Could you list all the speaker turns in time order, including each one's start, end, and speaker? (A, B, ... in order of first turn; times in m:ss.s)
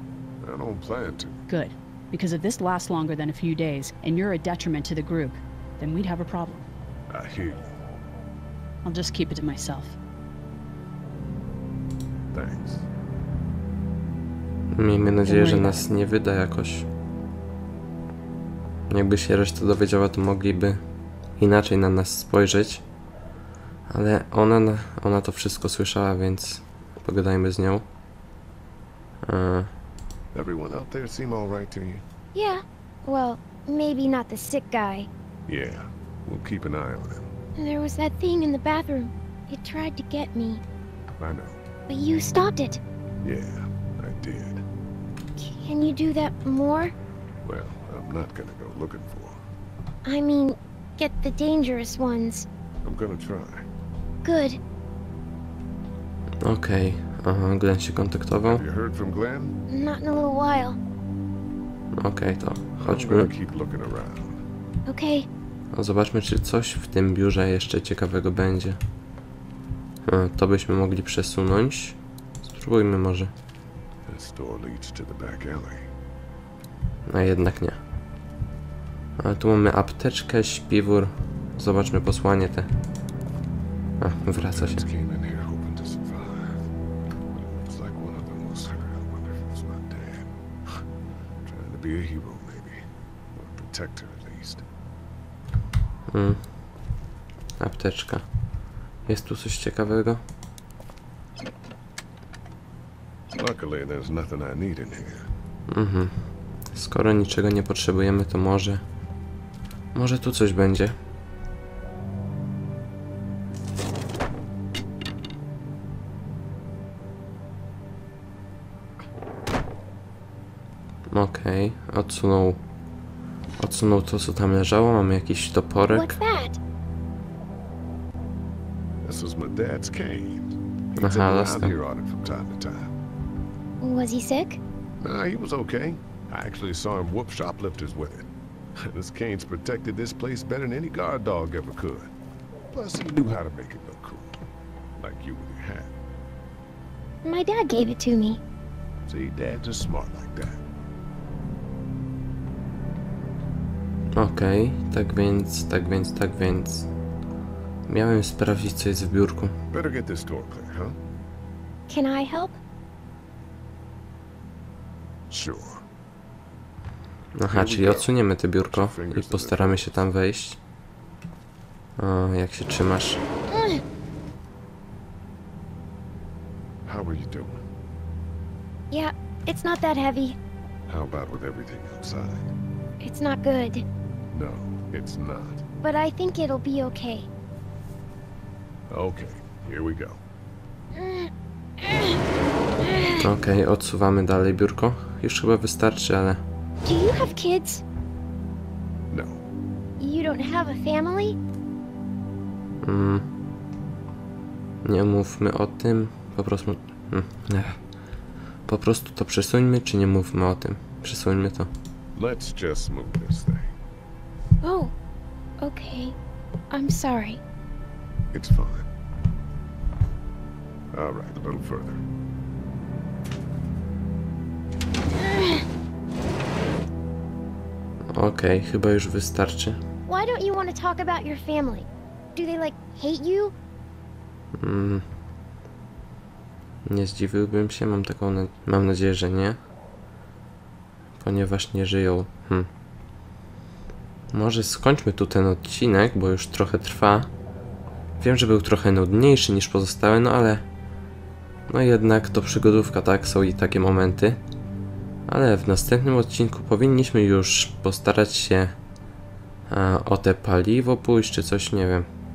0:00.4-0:01.4 A
0:01.5-0:06.7 B
0:07.1-0:07.8 A
0:08.8-0:10.0 B
0:12.3-0:12.9 A
0:14.7-0:16.9 C
0:15.2-0:15.9 B
0:18.9-0:20.8 C
0:21.4-0:22.8 C
0:23.9-0:27.8 C
0:29.2-0:29.7 C
0:30.3-0:32.0 A
0:32.3-0:35.1 D
0:35.5-0:37.3 A
0:37.6-0:40.6 D
0:41.2-0:41.6 A
0:41.9-0:42.8 D
0:43.2-0:44.6 A
0:45.4-0:46.9 D
0:47.4-0:49.4 A
0:50.0-0:52.4 D
0:52.8-0:53.7 A
0:54.2-0:54.6 D
0:56.4-0:58.6 C
0:58.4-0:59.6 A
0:59.7-1:00.8 D
1:02.0-1:03.3 C
1:02.8-1:04.4 A
1:04.9-1:05.3 D
1:05.7-1:08.8 C
1:10.1-1:13.3 C
1:14.1-1:15.9 A
1:17.1-1:17.8 C
1:19.2-1:22.7 C
1:24.0-1:24.8 C
1:24.3-1:26.7 A
1:27.3-1:30.8 A
1:31.4-1:34.6 A
1:36.1-1:36.4 C
1:37.6-1:38.2 C
1:39.1-1:40.2 C
1:43.3-1:45.3 A
1:45.7-1:46.1 C
1:46.7-1:48.8 C
1:49.9-1:50.9 C
2:01.1-2:02.6 C
2:03.6-2:06.2 C
2:05.9-2:06.6 D
2:09.0-2:12.9 A
2:11.0-2:11.7 C
2:13.8-2:14.6 D
2:15.0-2:22.1 A
2:22.7-2:24.4 A
2:25.0-2:25.9 A
2:27.2-2:28.4 D
2:29.0-2:30.6 A
2:34.2-2:36.9 C
2:37.9-2:39.5 C
2:39.7-2:41.0 A
2:41.9-2:42.6 D
2:45.3-2:45.8 A
2:47.4-2:50.6 C
2:47.5-2:50.1 A
2:52.0-2:53.2 C
2:53.5-2:53.8 D
2:56.8-2:57.6 A
2:58.9-3:00.4 D
3:00.9-3:02.5 A
3:03.0-3:03.8 D
3:04.3-3:05.6 A
3:05.8-3:07.3 D
3:08.9-3:10.2 A
3:10.9-3:11.3 D
3:11.8-3:12.2 D
3:12.8-3:13.2 D
3:13.2-3:16.4 C
3:16.8-3:17.8 D
3:19.1-3:19.4 A
3:20.0-3:21.4 D
3:22.8-3:23.2 C
3:24.8-3:27.8 C
3:28.7-3:31.7 C
3:32.1-3:33.7 A
3:34.6-3:34.9 D
3:35.6-3:36.1 D
3:36.7-3:37.4 D
3:38.3-3:38.9 A
3:40.9-3:42.0 A
3:45.2-3:45.6 D
3:48.1-3:49.8 C
3:50.1-3:53.5 D
3:54.6-3:55.0 C
3:56.8-3:59.6 C
4:01.2-4:02.7 C
4:04.3-4:07.3 C
4:08.2-4:10.6 C
4:11.7-4:14.4 C
4:15.3-4:18.8 C
4:19.7-4:22.1 C